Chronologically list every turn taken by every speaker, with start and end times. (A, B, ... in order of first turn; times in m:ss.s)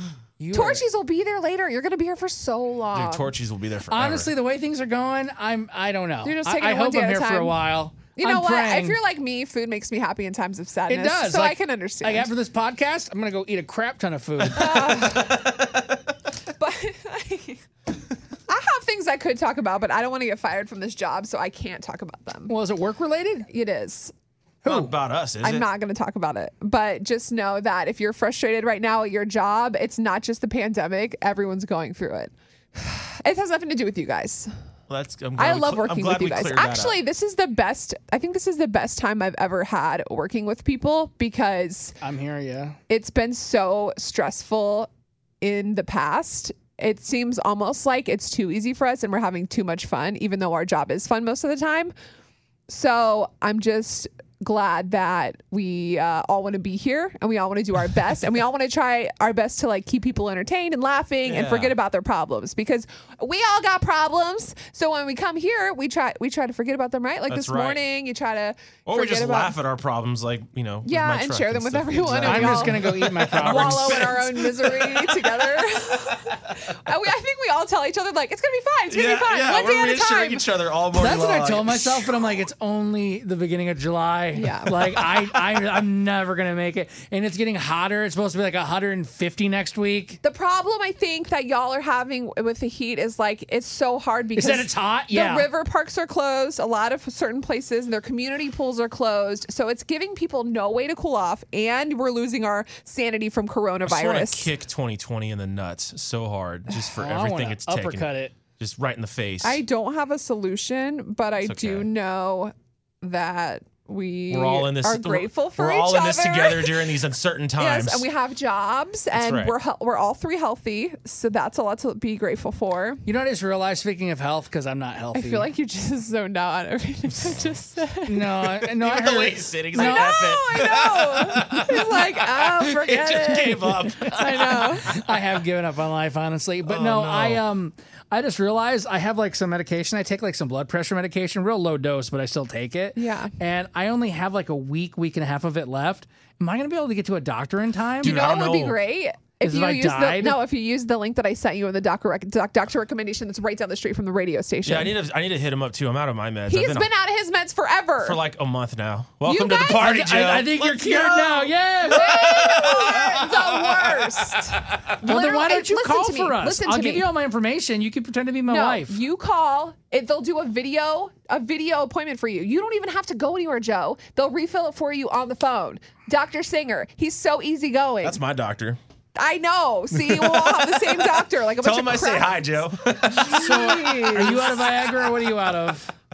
0:00.4-0:00.8 A
0:00.5-0:03.3 B
0:02.9-0:04.3 C
0:03.9-0:09.0 A
0:06.2-0:07.6 B
0:08.2-0:12.3 B
0:10.9-0:14.8 A
0:14.4-0:16.0 C
0:14.5-0:15.4 B
0:16.6-0:17.6 B
0:18.5-0:22.5 B
0:22.5-0:23.5 A
0:23.5-0:24.1 B
0:24.6-0:24.9 A
0:24.6-0:25.7 C
0:25.4-0:34.5 B
0:34.9-0:37.0 C
0:35.4-0:42.0 B
0:42.0-0:42.8 A
0:42.9-0:44.9 B
0:45.4-0:51.9 B
0:52.7-1:09.6 B
1:01.3-1:01.8 C
1:07.3-1:07.8 C
1:08.9-1:15.8 C
1:10.8-1:20.5 B
1:12.2-1:14.1 A
1:18.9-1:22.3 C
1:21.0-1:30.2 A
1:24.3-1:25.0 B
1:30.2-1:44.5 B
1:34.4-1:35.5 A
1:43.9-1:49.6 C
1:47.0-1:48.4 A
1:49.4-1:57.0 B
1:51.4-1:51.9 C
1:54.3-1:58.1 C
1:57.6-2:03.0 B
1:59.1-1:59.5 C
2:03.0-2:05.5 A
2:05.1-2:08.4 B
2:08.1-2:10.1 A
2:08.8-2:15.0 C
2:09.7-2:14.9 B
2:14.8-2:28.2 A
2:16.7-2:17.4 C
2:23.0-2:23.3 B
2:28.0-2:28.8 C
2:28.0-2:35.0 B
2:29.4-2:30.4 A
2:34.7-2:36.9 C
2:36.5-2:38.2 B
2:38.0-2:44.8 C
2:39.2-2:39.9 B
2:39.8-2:42.2 A
2:41.9-2:47.1 B
2:45.0-2:49.0 A
2:48.5-2:58.2 B
2:58.0-2:58.8 C
2:59.2-3:02.5 B
3:00.0-3:04.6 C
3:03.3-3:04.6 B
3:03.3-3:05.9 A